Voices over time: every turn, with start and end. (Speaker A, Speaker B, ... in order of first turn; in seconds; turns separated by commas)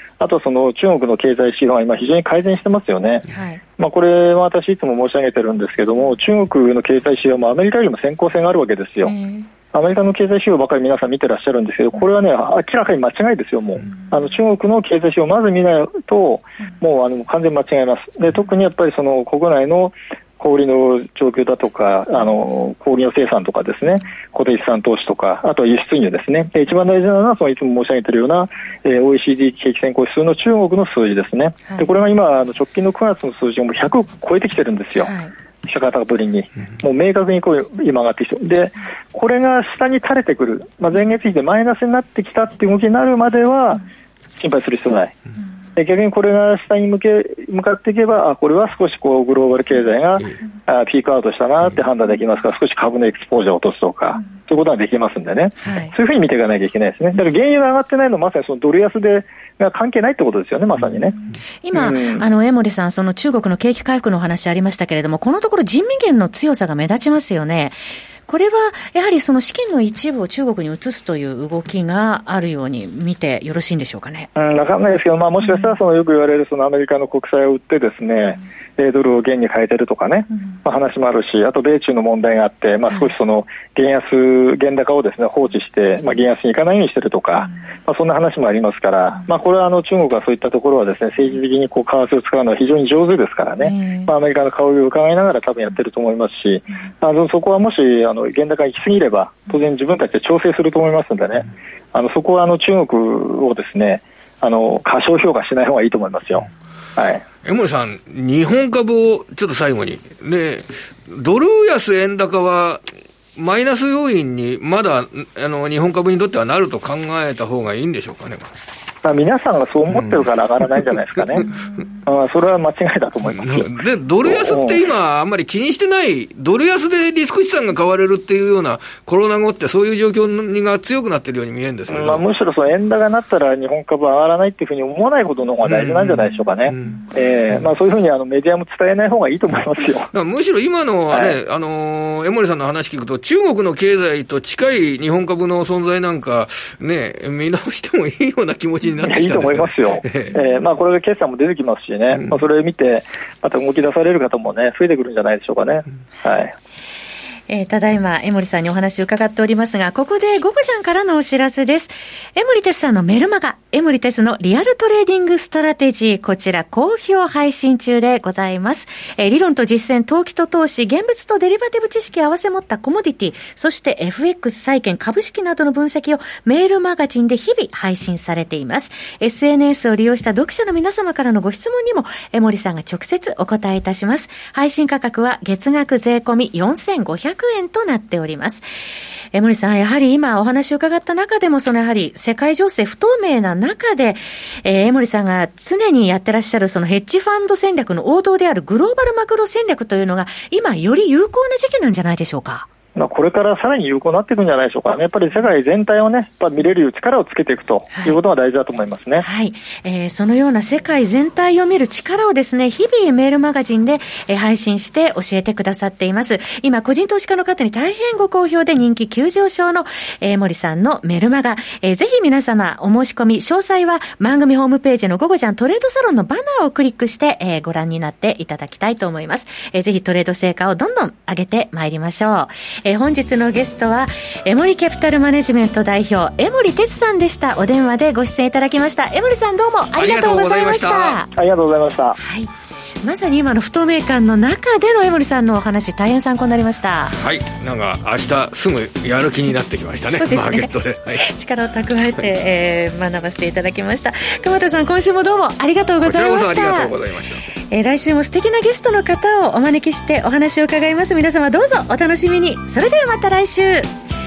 Speaker A: 0.2-3.2, Speaker B: 3.3-3.6, Speaker A: 3.8-9.1, Speaker B: 9.1-9.5, Speaker A: 9.7-35.1, Speaker B: 35.0-35.3, Speaker A: 35.6-43.8, Speaker A: 44.4-45.1, Speaker A: 45.8-61.2, Speaker B: 55.6-55.9, Speaker B: 61.6-74.3, Speaker A: 61.7-62.2, Speaker A: 74.3-107.2, Speaker B: 93.6-94.1, Speaker C: 107.4-112.8, Speaker C: 113.3-118.5, Speaker A: 119.0-121.5, Speaker A: 122.0-124.8, Speaker C: 123.3-132.2, Speaker A: 131.9-140.1, Speaker C: 135.7-137.0, Speaker C: 140.1-150.3, Speaker A: 149.0-156.5, Speaker B: 157.5-188.6, Speaker B: 189.3-202.7, Speaker A: 202.9-209.2, Speaker B: 207.9-208.2, Speaker B: 209.2-241.3, Speaker C: 239.9-241.2, Speaker A: 241.3-242.2, Speaker B: 242.2-242.5, Speaker B: 243.0-247.1, Speaker C: 247.1-251.2, Speaker B: 250.0-256.9, Speaker C: 256.0-257.4, Speaker B: 257.7-263.9